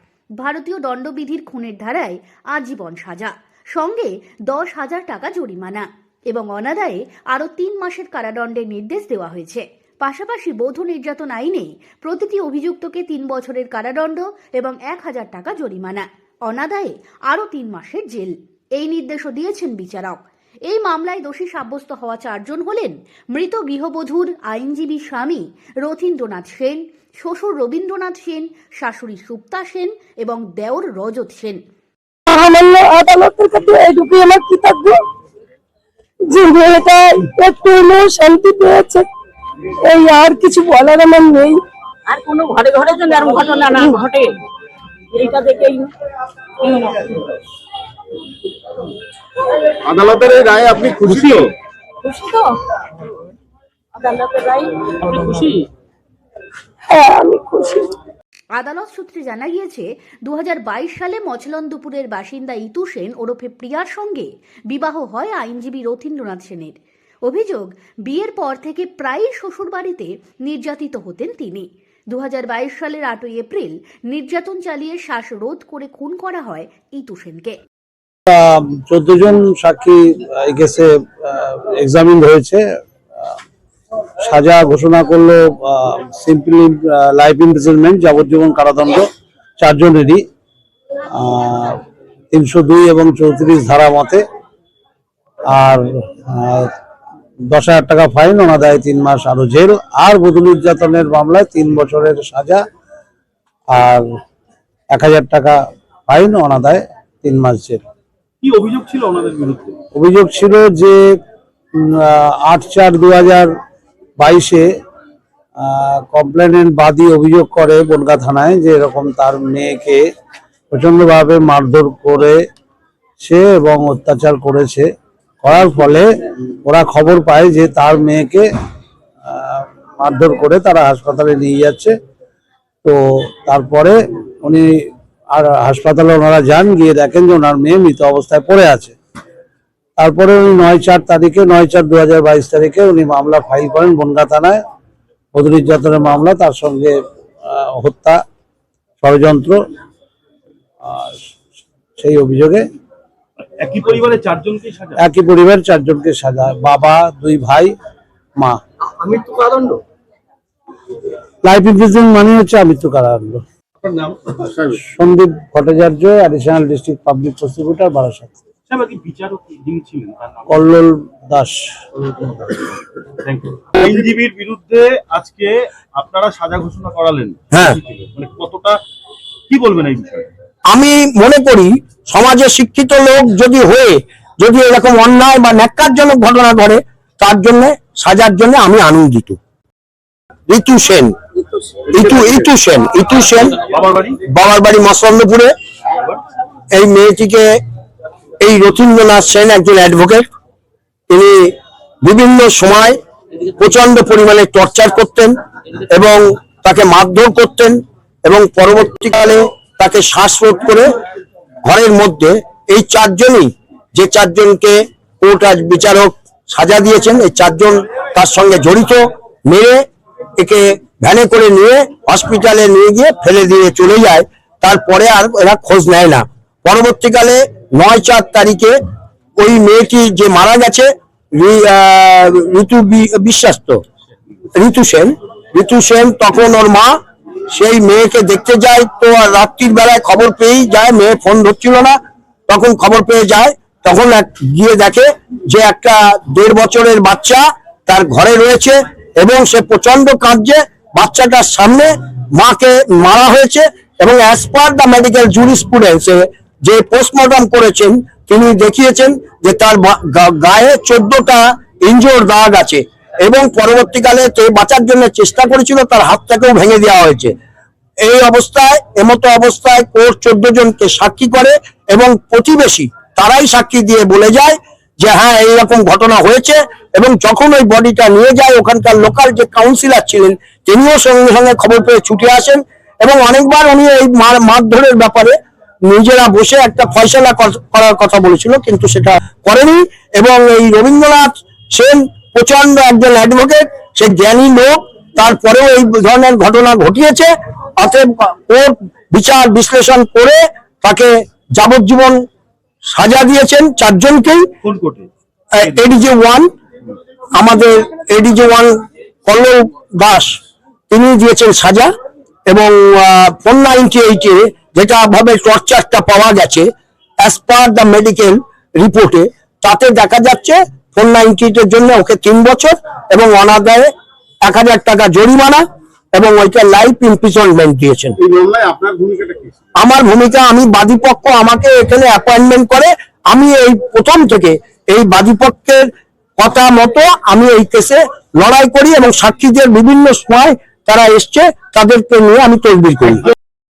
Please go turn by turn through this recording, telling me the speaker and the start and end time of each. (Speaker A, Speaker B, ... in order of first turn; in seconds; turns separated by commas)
Speaker A: 0.4-31.6, Speaker B: 32.3-35.0, Speaker B: 36.3-39.1, Speaker B: 39.8-41.6, Speaker C: 42.1-44.3, Speaker C: 45.1-45.9, Speaker C: 46.6-47.3, Speaker D: 49.8-51.5, Speaker C: 52.0-52.6, Speaker C: 54.0-55.7, Speaker B: 56.9-57.9, Speaker A: 58.5-77.5, Speaker E: 78.3-82.6, Speaker E: 84.2-89.0, Speaker E: 89.6-90.2, Speaker E: 91.1-91.8, Speaker E: 92.3-94.2, Speaker E: 95.5-96.7, Speaker E: 97.5-102.6, Speaker E: 103.7-104.0, Speaker E: 104.9-107.8, Speaker D: 108.4-109.8, Speaker E: 109.9-111.2, Speaker E: 111.8-113.5, Speaker E: 114.2-114.7, Speaker E: 115.6-120.0, Speaker E: 120.7-122.4, Speaker E: 123.2-124.9, Speaker E: 125.4-126.1, Speaker E: 126.6-128.4, Speaker E: 129.2-131.9, Speaker E: 132.8-138.9, Speaker E: 140.0-144.6, Speaker E: 145.3-148.2, Speaker E: 149.0-149.6, Speaker E: 150.8-151.2, Speaker E: 152.0-152.6, Speaker D: 153.6-155.0, Speaker E: 155.0-157.7, Speaker D: 158.9-159.8, Speaker E: 161.4-163.4, Speaker D: 163.8-164.5, Speaker E: 164.6-168.3, Speaker D: 168.7-170.5, Speaker E: 170.5-171.6, Speaker D: 172.1-178.8, Speaker F: 177.5-177.8, Speaker D: 179.5-180.3, Speaker F: 180.7-189.4, Speaker F: 190.5-191.1, Speaker C: 191.4-191.9, Speaker F: 191.9-193.6, Speaker D: 193.6-194.2, Speaker F: 194.3-195.5, Speaker D: 195.9-196.2, Speaker F: 196.7-197.4, Speaker F: 198.4-200.3, Speaker F: 201.1-203.0, Speaker F: 203.6-210.9, Speaker F: 211.6-219.8, Speaker F: 220.4-228.8, Speaker F: 229.4-233.8, Speaker F: 234.6-237.0, Speaker F: 237.5-267.3, Speaker F: 268.1-285.4, Speaker F: 285.9-302.2, Speaker F: 302.9-304.4, Speaker D: 304.6-305.1, Speaker F: 305.6-306.5, Speaker F: 307.4-308.7, Speaker F: 309.2-310.4, Speaker F: 310.9-311.9, Speaker F: 312.5-316.7, Speaker F: 317.2-323.9, Speaker F: 324.4-328.2, Speaker D: 328.2-329.5, Speaker F: 329.8-335.9, Speaker F: 336.4-343.3